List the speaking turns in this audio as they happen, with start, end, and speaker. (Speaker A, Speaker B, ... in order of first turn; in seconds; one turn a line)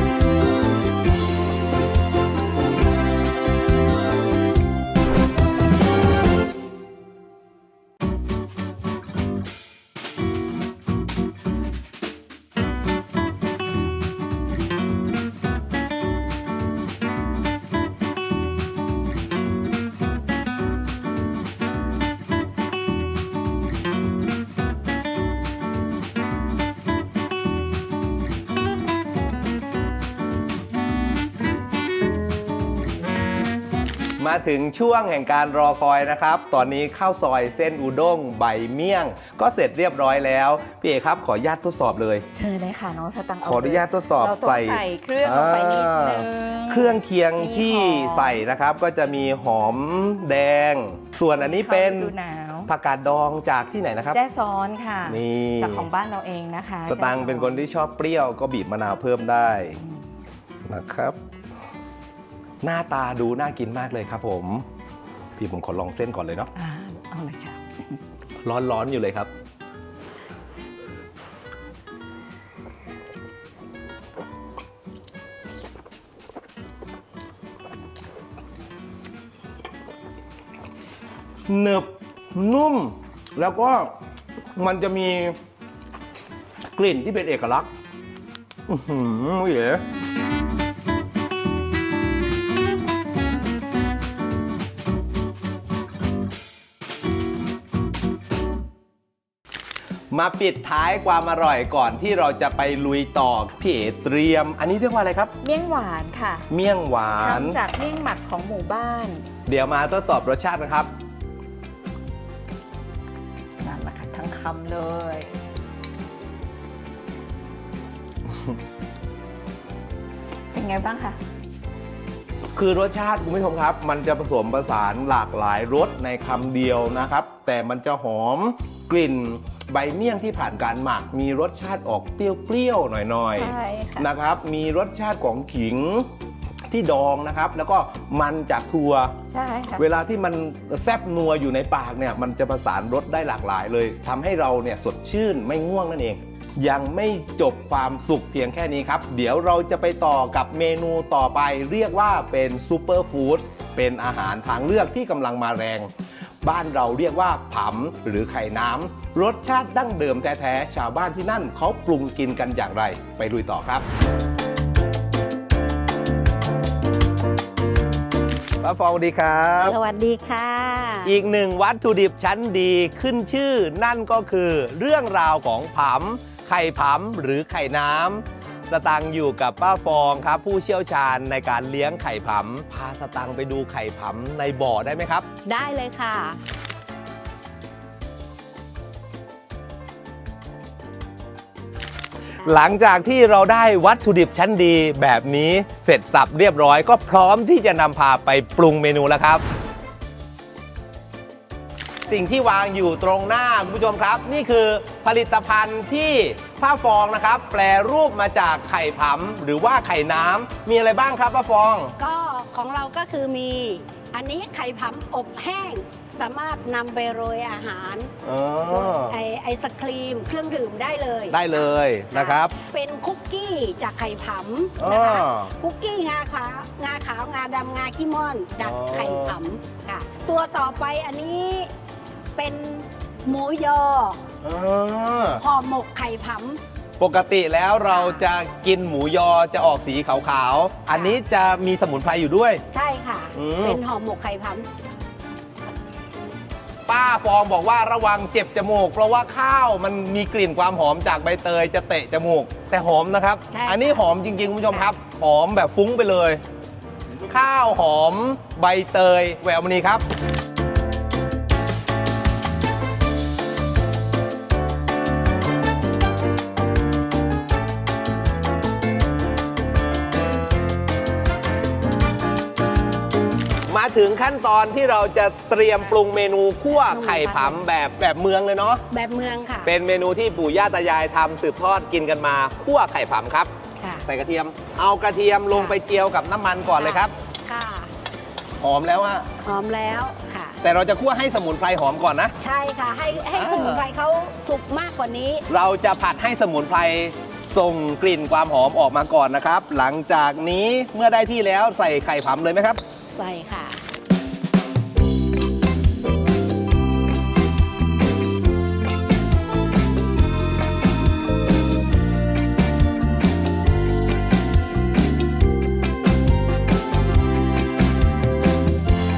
Speaker A: 34.2-42.2
Speaker B: 42.3-48.4
Speaker A: 43.4-52.1
Speaker B: 51.2-52.7
Speaker A: 52.7-54.2
Speaker B: 54.1-57.7
Speaker A: 55.0-55.9
Speaker A: 56.8-59.8
Speaker A: 60.6-61.2
Speaker A: 62.6-64.7
Speaker A: 65.4-66.5
Speaker B: 66.5-68.0
Speaker A: 68.4-69.3
Speaker A: 81.5-83.9
Speaker A: 84.5-85.4
Speaker A: 86.7-87.7
Speaker A: 88.7-89.8
Speaker A: 100.1-105.3
Speaker B: 105.4-106.5
Speaker A: 106.5-107.6
Speaker B: 107.1-109.2
Speaker A: 109.5-110.9
Speaker B: 113.6-115.3
Speaker A: 118.3-118.5
Speaker B: 120.5-121.2
Speaker A: 122.5-136.1
Speaker B: 133.3-134.1
Speaker A: 136.7-139.2
Speaker B: 139.3-139.8
Speaker A: 139.8-155.9
Speaker A: 156.4-163.9
Speaker A: 168.6-169.7
Speaker C: 169.6-171.1
Speaker A: 171.0-185.3
Speaker C: 185.4-186.4
Speaker C: 192.4-192.7
Speaker A: 192.4-199.4
Speaker A: 202.1-211.9
Speaker C: 212.0-218.1
Speaker A: 218.2-219.2
Speaker C: 218.7-231.7
Speaker A: 221.3-222.5
Speaker A: 224.8-225.5
Speaker A: 228.6-229.4
Speaker C: 232.3-234.2
Speaker A: 234.4-235.4
Speaker C: 235.4-236.6
Speaker A: 237.0-242.6
Speaker C: 237.8-238.3
Speaker C: 240.9-241.2
Speaker C: 242.7-244.7
Speaker A: 243.3-243.8
Speaker A: 246.9-256.4
Speaker C: 253.5-254.1
Speaker C: 254.6-254.9
Speaker A: 257.3-260.0
Speaker A: 273.7-278.8
Speaker C: 276.7-277.6
Speaker C: 278.9-279.7
Speaker A: 279.6-283.5
Speaker C: 283.8-284.0
Speaker A: 284.1-287.1
Speaker C: 285.5-285.8
Speaker C: 286.8-287.9
Speaker A: 288.6-289.3
Speaker C: 289.4-290.6
Speaker A: 290.6-292.3
Speaker C: 292.4-295.4
Speaker A: 293.3-293.8
Speaker A: 295.5-302.8
Speaker C: 303.1-303.8